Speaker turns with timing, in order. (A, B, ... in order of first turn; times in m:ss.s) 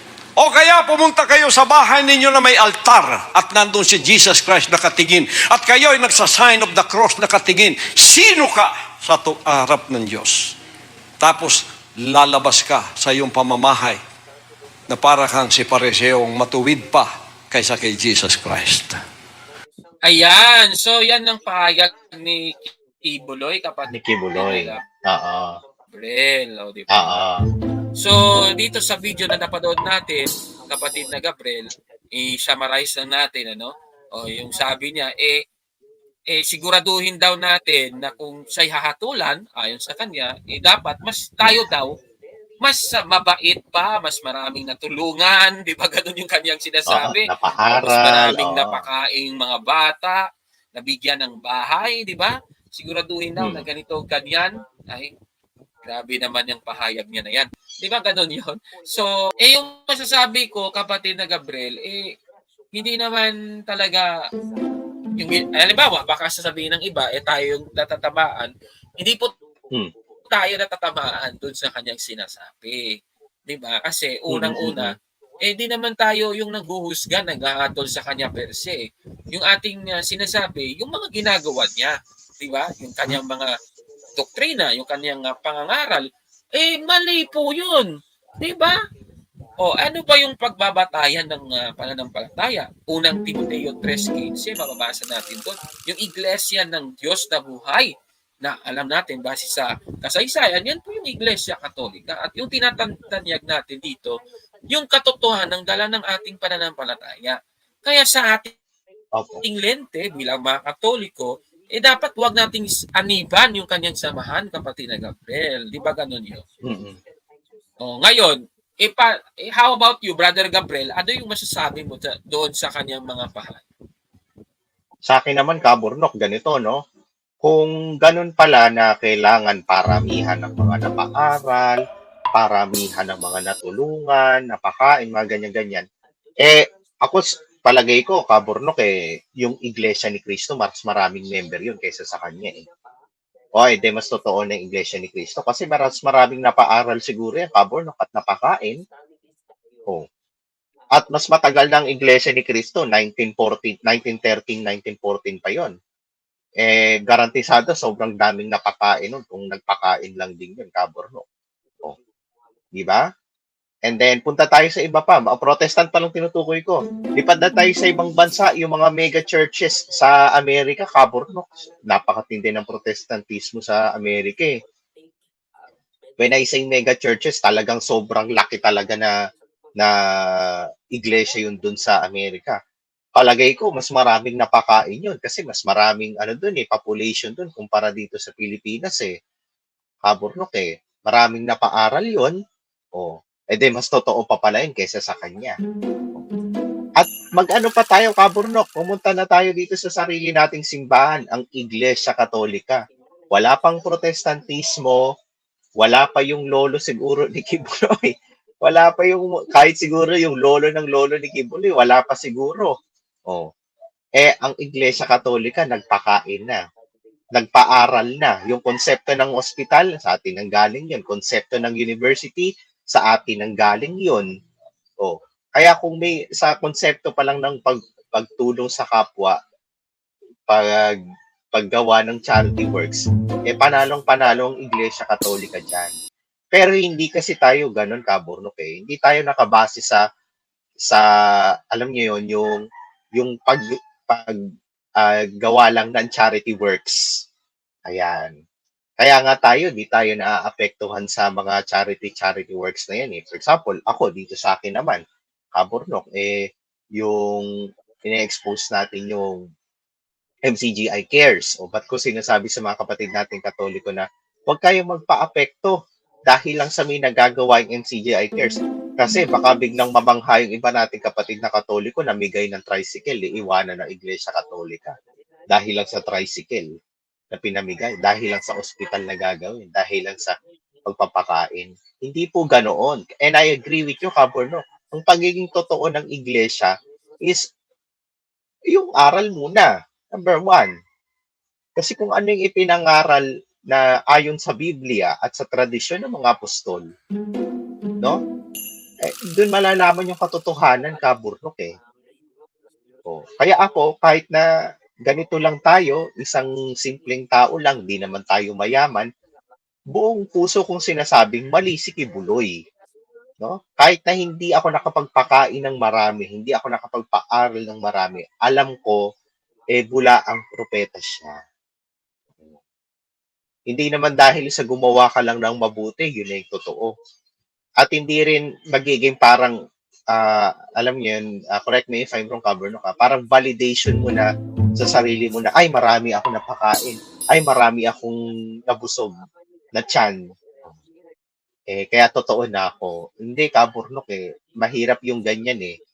0:00.4-0:10.6 A
0:11.2-0:14.0 A
0:14.9-0:19.0 A
0:20.0-0:24.8 B
0:23.9-0:25.6 C
0:25.9-0:27.2 B
0:26.9-0:27.4 C
0:28.0-0:35.4 B
0:36.3-0:42.0 B
0:42.6-0:55.1 B
0:46.9-0:48.8 C
0:53.4-0:53.6 C
0:55.8-1:02.1 B
1:02.7-1:04.1 B
1:05.2-1:09.3 B
1:10.3-1:13.0 B
1:13.5-1:23.5 B
1:14.3-1:15.0 C
1:24.2-1:28.8 B
1:29.6-1:44.2 B
1:44.7-1:48.5 B
1:49.2-1:49.4 C
1:49.4-1:56.4 B
1:56.6-1:57.0 C
1:57.8-2:03.6 B
2:05.1-2:06.8 C
2:07.4-2:11.8 C
2:12.4-2:15.8 C
2:16.4-2:22.6 C
2:23.6-2:28.8 C
2:31.0-2:35.7 C
2:36.6-2:41.2 C
2:42.8-2:43.0 C
2:43.9-2:54.5 C
2:56.2-2:59.1 C
2:59.8-3:02.6 C
3:03.2-3:09.1 C
3:10.1-3:12.3 C
3:13.0-3:15.6 C
3:17.0-3:22.8 C
3:23.3-3:25.0 C
3:25.8-3:28.1 C
3:28.6-3:32.7 C
3:34.2-3:36.6 C
3:37.4-3:44.2 C
3:45.0-3:49.4 C
3:50.5-3:50.9 C
3:51.5-3:55.9 C
3:56.5-4:00.0 C
4:01.7-4:02.6 C
4:03.2-4:04.4 C
4:05.0-4:07.0 C
4:07.9-4:08.3 C
4:09.0-4:15.0 C
4:15.6-4:16.4 C
4:17.0-4:17.5 C
4:18.0-4:19.4 C
4:20.5-4:25.8 C
4:26.3-4:34.9 C
4:35.5-4:36.7 C
4:37.3-4:40.3 C
4:40.9-4:46.7 C
4:48.7-4:50.7 C
4:51.8-4:56.8 C
4:59.0-5:01.7 C
5:03.1-5:04.5 C
5:05.0-5:09.1 C
5:09.9-5:12.5 C
5:13.4-5:19.0 C
5:19.8-5:21.4 C
5:23.7-5:26.9 C
5:27.8-5:29.5 C
5:30.1-5:39.1 C
5:39.8-5:40.8 C
5:41.7-5:45.8 C